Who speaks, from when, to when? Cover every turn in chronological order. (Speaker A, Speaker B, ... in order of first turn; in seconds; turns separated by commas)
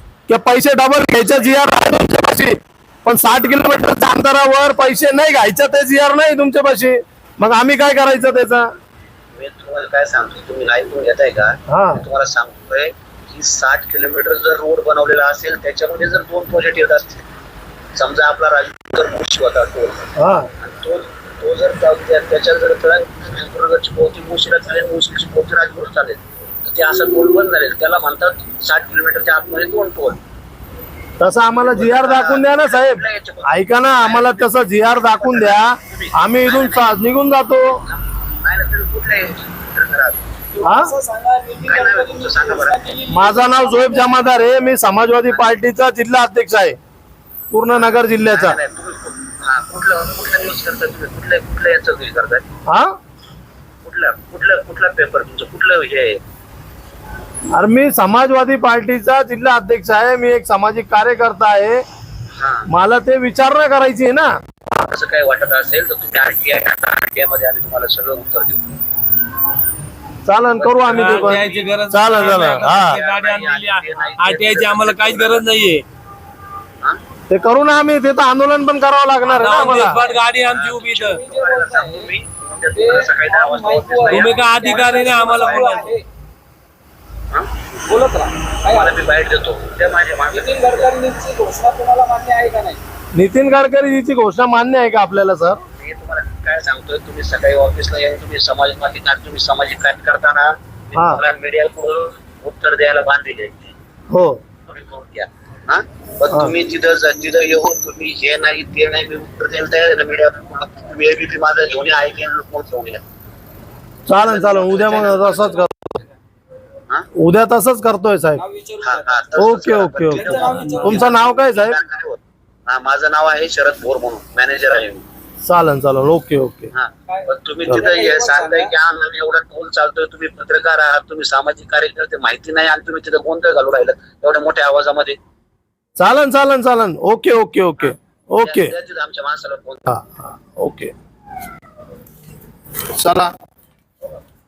Speaker A: 0.3-8.7, Speaker B: 9.3-17.2, Speaker A: 11.7-12.0, Speaker B: 17.9-30.2, Speaker A: 20.2-20.5, Speaker A: 31.2-37.8, Speaker B: 31.7-36.9, Speaker B: 37.7-40.2, Speaker C: 40.5-44.4, Speaker A: 40.6-40.9, Speaker B: 41.7-42.9, Speaker A: 43.1-46.8, Speaker A: 47.5-48.6, Speaker B: 47.7-52.5, Speaker A: 52.7-53.0, Speaker B: 53.8-56.2, Speaker A: 57.5-61.8, Speaker B: 62.4-62.7, Speaker A: 62.7-64.3, Speaker B: 64.8-68.7, Speaker A: 70.3-73.0, Speaker B: 70.6-75.5, Speaker D: 70.9-75.8, Speaker A: 77.3-80.0, Speaker D: 79.3-81.2, Speaker B: 79.4-85.9, Speaker C: 81.1-82.1, Speaker C: 82.8-86.0, Speaker D: 84.0-85.9, Speaker C: 87.8-88.9, Speaker B: 88.7-90.9, Speaker C: 90.3-92.8, Speaker A: 93.2-95.6, Speaker B: 95.7-103.8, Speaker A: 101.0-101.2, Speaker A: 104.1-104.4, Speaker B: 104.7-113.0, Speaker A: 114.1-116.0, Speaker B: 114.1-115.6, Speaker C: 115.2-115.5, Speaker A: 117.2-118.4, Speaker C: 118.4-121.2, Speaker B: 118.8-125.0, Speaker A: 119.4-121.8, Speaker A: 125.4-126.7, Speaker B: 126.7-135.2, Speaker C: 127.1-128.7, Speaker A: 136.0-138.7, Speaker B: 137.8-140.0, Speaker A: 139.9-140.9, Speaker A: 142.9-143.3